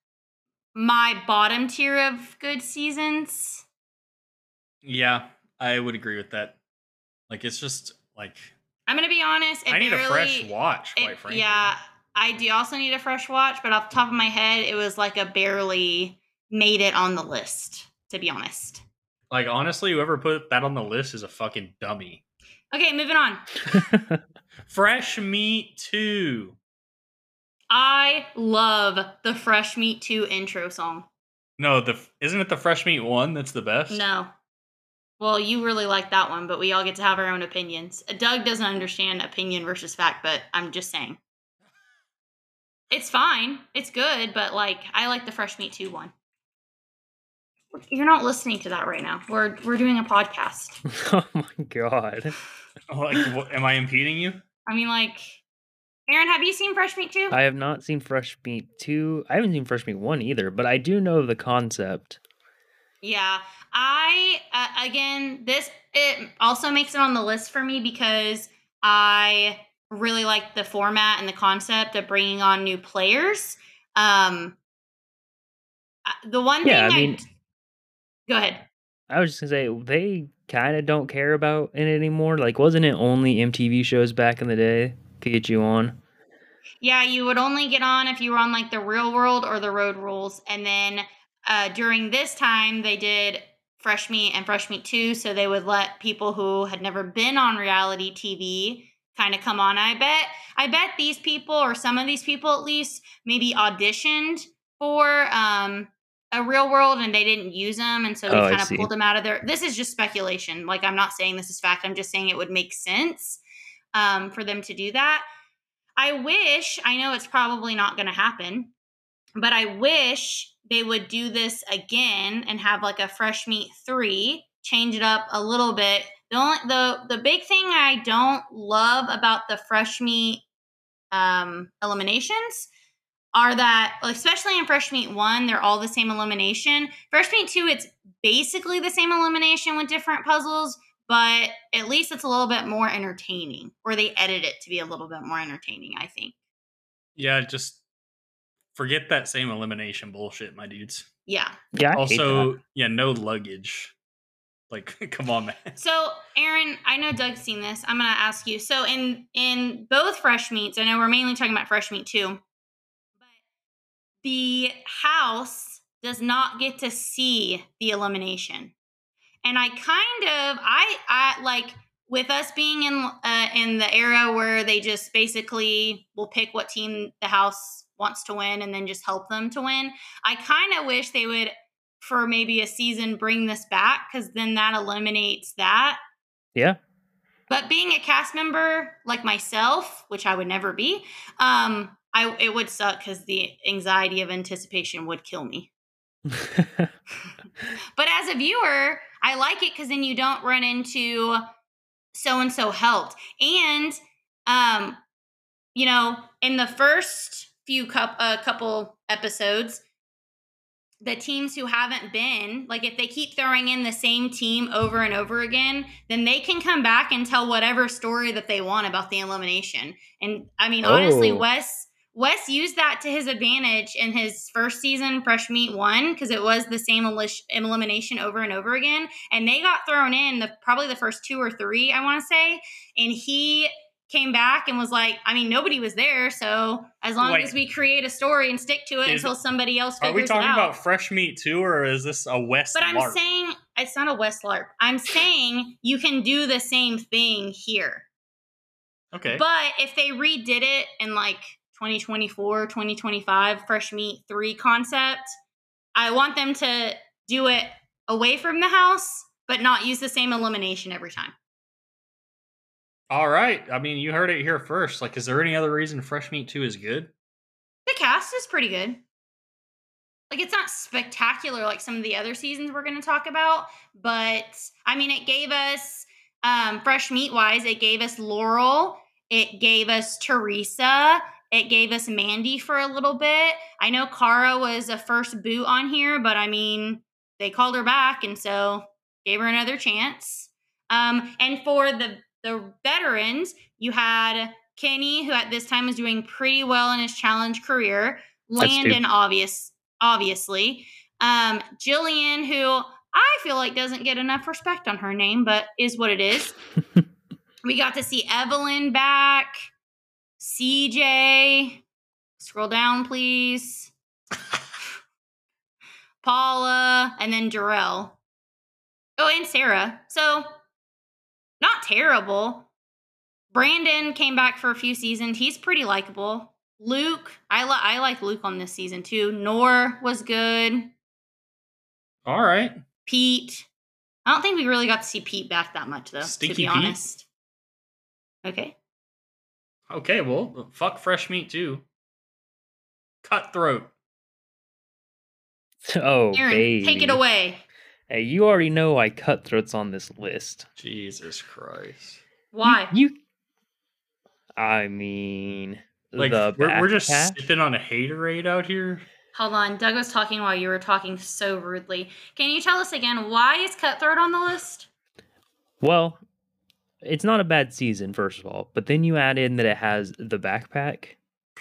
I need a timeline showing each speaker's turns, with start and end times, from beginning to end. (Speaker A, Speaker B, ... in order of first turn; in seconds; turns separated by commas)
Speaker A: 0.7-3.6, Speaker B: 4.8-6.6, Speaker B: 7.3-8.5, Speaker A: 8.9-18.8, Speaker B: 9.7-11.7, Speaker B: 19.3-22.2, Speaker A: 22.7-23.5, Speaker C: 23.7-24.2, Speaker B: 24.7-26.6, Speaker A: 27.7-31.1, Speaker B: 31.6-34.0, Speaker A: 33.9-34.3, Speaker A: 35.2-41.2, Speaker A: 42.9-46.1, Speaker A: 47.8-50.8, Speaker C: 50.9-52.4, Speaker B: 52.9-54.4, Speaker A: 54.7-55.4, Speaker A: 56.1-57.4, Speaker C: 57.3-62.2, Speaker A: 63.0-74.6, Speaker A: 76.1-77.2, Speaker C: 76.6-77.2, Speaker A: 78.3-78.7, Speaker C: 79.1-86.0, Speaker A: 86.8-113.4, Speaker C: 108.3-108.9, Speaker A: 113.9-115.2, Speaker A: 116.0-118.7, Speaker A: 119.4-130.4, Speaker A: 131.1-132.7, Speaker A: 133.3-146.3, Speaker B: 147.2-147.8, Speaker B: 148.7-151.1, Speaker A: 151.3-151.6, Speaker C: 151.7-152.5, Speaker B: 151.9-153.9, Speaker B: 154.7-155.8, Speaker A: 155.8-162.4, Speaker A: 164.2-168.7, Speaker A: 169.4-186.0, Speaker A: 187.5-195.7, Speaker C: 196.3-196.9, Speaker A: 197.9-201.4, Speaker A: 202.1-205.0, Speaker A: 205.7-209.8, Speaker A: 211.0-240.7, Speaker C: 220.8-221.4, Speaker B: 237.2-237.5, Speaker B: 239.1-239.3, Speaker B: 240.0-243.2, Speaker A: 242.7-248.1, Speaker B: 249.1-249.4, Speaker A: 249.3-255.3, Speaker A: 255.9-261.3, Speaker B: 263.1-267.1, Speaker A: 267.9-269.0, Speaker A: 270.3-306.6, Speaker C: 298.6-299.0, Speaker A: 307.6-309.6, Speaker A: 310.4-311.8, Speaker A: 312.4-313.9, Speaker A: 316.2-318.2, Speaker A: 319.2-320.5, Speaker A: 321.6-322.7, Speaker A: 323.5-330.9, Speaker B: 332.2-332.7, Speaker A: 333.1-333.7, Speaker A: 334.2-337.2, Speaker B: 336.2-337.0, Speaker A: 338.4-338.7, Speaker B: 339.9-341.8, Speaker B: 343.2-343.9, Speaker C: 345.9-347.2, Speaker A: 346.3-347.6, Speaker C: 348.1-350.7, Speaker B: 350.8-352.2, Speaker A: 352.5-352.9, Speaker C: 352.6-353.2, Speaker C: 354.6-357.4, Speaker B: 356.2-359.0, Speaker A: 359.3-364.9, Speaker C: 365.8-366.2, Speaker C: 367.0-371.2